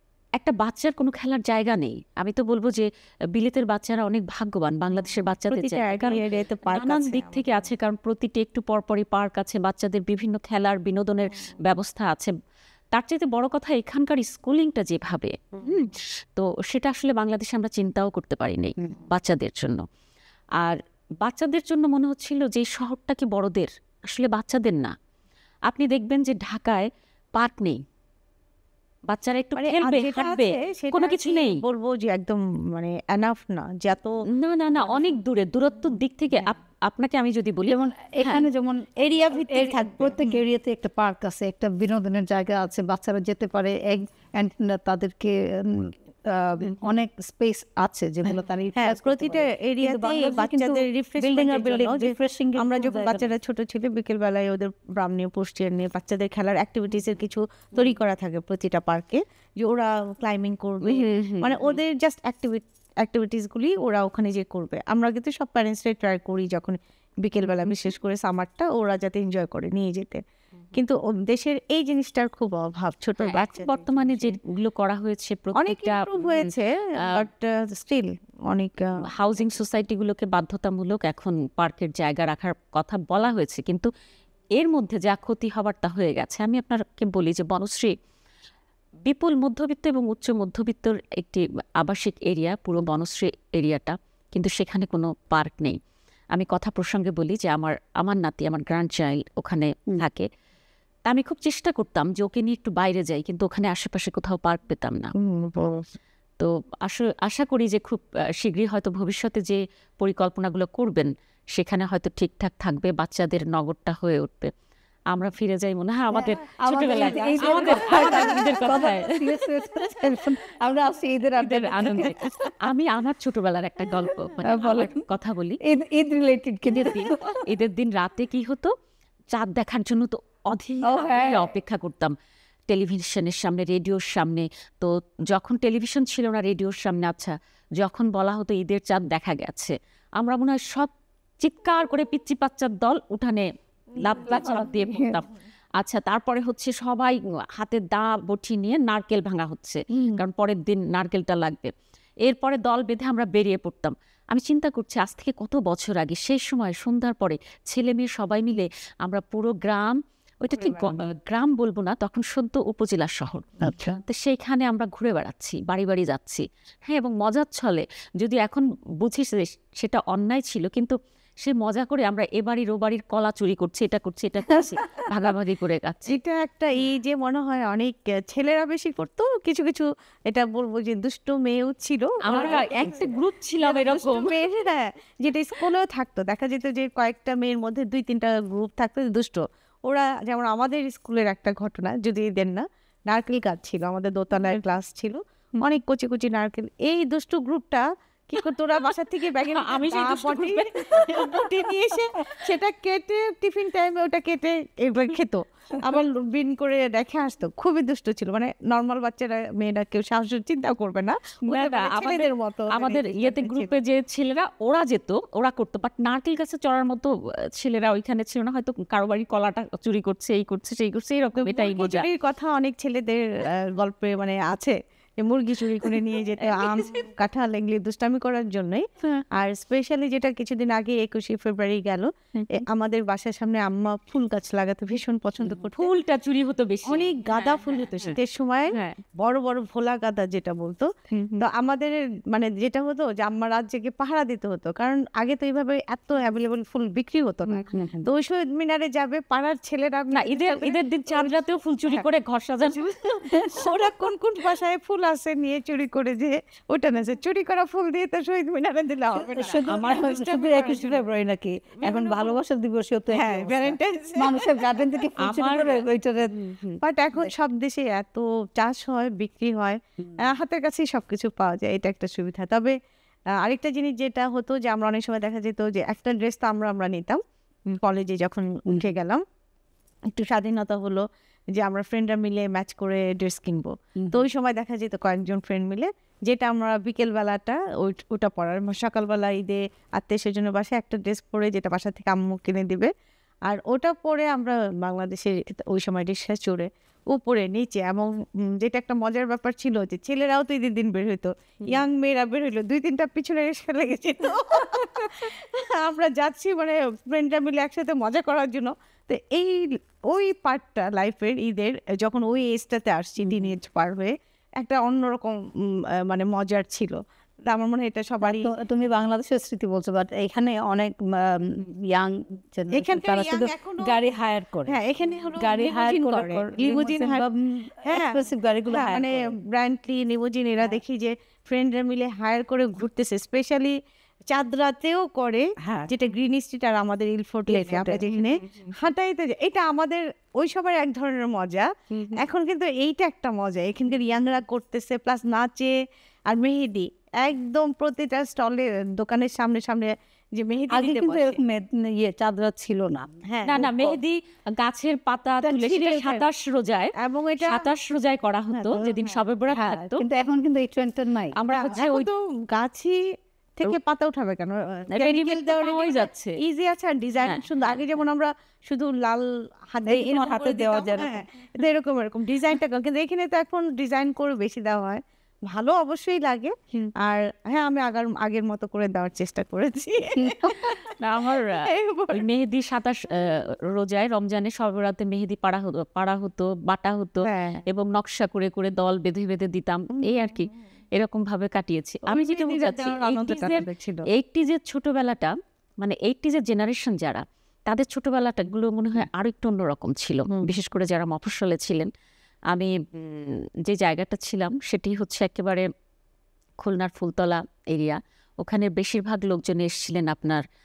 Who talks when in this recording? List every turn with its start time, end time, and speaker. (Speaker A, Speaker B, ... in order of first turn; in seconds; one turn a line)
Speaker A: 0.4-12.3
Speaker B: 5.5-7.7
Speaker A: 12.9-19.8
Speaker A: 20.6-24.9
Speaker A: 25.7-27.8
Speaker A: 29.1-31.6
Speaker B: 29.6-34.2
Speaker A: 34.3-38.4
Speaker C: 37.7-53.3
Speaker B: 39.0-40.2
Speaker B: 48.8-70.2
Speaker A: 60.8-61.8
Speaker B: 70.7-74.4
Speaker A: 73.2-77.2
Speaker B: 75.6-78.8
Speaker A: 79.1-83.9
Speaker A: 84.6-87.9
Speaker A: 89.0-95.8
Speaker A: 96.3-100.3
Speaker A: 101.0-105.1
Speaker B: 105.2-105.9
Speaker A: 106.4-114.5
Speaker A: 115.1-119.2
Speaker C: 116.1-122.5
Speaker B: 117.3-118.5
Speaker A: 121.4-125.6
Speaker C: 124.4-125.0
Speaker C: 125.6-127.4
Speaker A: 126.7-128.7
Speaker A: 129.3-132.1
Speaker C: 130.8-131.5
Speaker A: 132.7-143.5
Speaker A: 144.0-145.3
Speaker C: 144.1-145.2
Speaker A: 145.8-151.7
Speaker A: 152.2-176.2
Speaker B: 160.5-161.0
Speaker C: 163.6-164.0
Speaker B: 176.1-213.7
Speaker A: 182.2-184.4
Speaker A: 199.5-201.6
Speaker A: 211.5-222.1
Speaker B: 221.4-235.9
Speaker A: 226.4-226.9
Speaker A: 235.7-238.2
Speaker B: 236.8-251.3
Speaker A: 238.7-239.0
Speaker A: 241.1-241.4
Speaker C: 247.5-248.1
Speaker A: 250.1-253.2
Speaker B: 252.7-261.0
Speaker C: 253.3-253.6
Speaker C: 259.1-266.8
Speaker B: 261.8-262.3
Speaker B: 263.1-264.7
Speaker A: 265.2-265.8
Speaker B: 266.8-272.8
Speaker B: 273.3-279.2
Speaker B: 280.1-292.9
Speaker B: 293.5-318.5
Speaker C: 313.2-313.5
Speaker C: 318.2-324.8
Speaker B: 322.7-324.0
Speaker B: 324.6-327.2
Speaker C: 325.4-329.3
Speaker B: 327.8-333.8
Speaker B: 334.3-345.7
Speaker C: 335.6-335.9
Speaker C: 337.5-338.1
Speaker B: 346.3-351.4
Speaker C: 350.7-353.1
Speaker B: 353.3-354.0
Speaker A: 353.4-360.0
Speaker C: 355.4-356.2
Speaker B: 357.0-357.7
Speaker B: 358.5-359.9
Speaker C: 360.0-361.3
Speaker A: 361.4-362.1
Speaker B: 361.5-363.0
Speaker B: 363.6-381.0
Speaker A: 364.9-366.4
Speaker A: 367.2-367.8
Speaker C: 369.9-371.2
Speaker C: 380.1-380.7
Speaker A: 381.0-401.9
Speaker B: 381.6-382.2
Speaker B: 387.2-387.6
Speaker B: 390.0-390.4
Speaker B: 392.1-394.1
Speaker A: 402.5-405.7
Speaker A: 406.6-410.4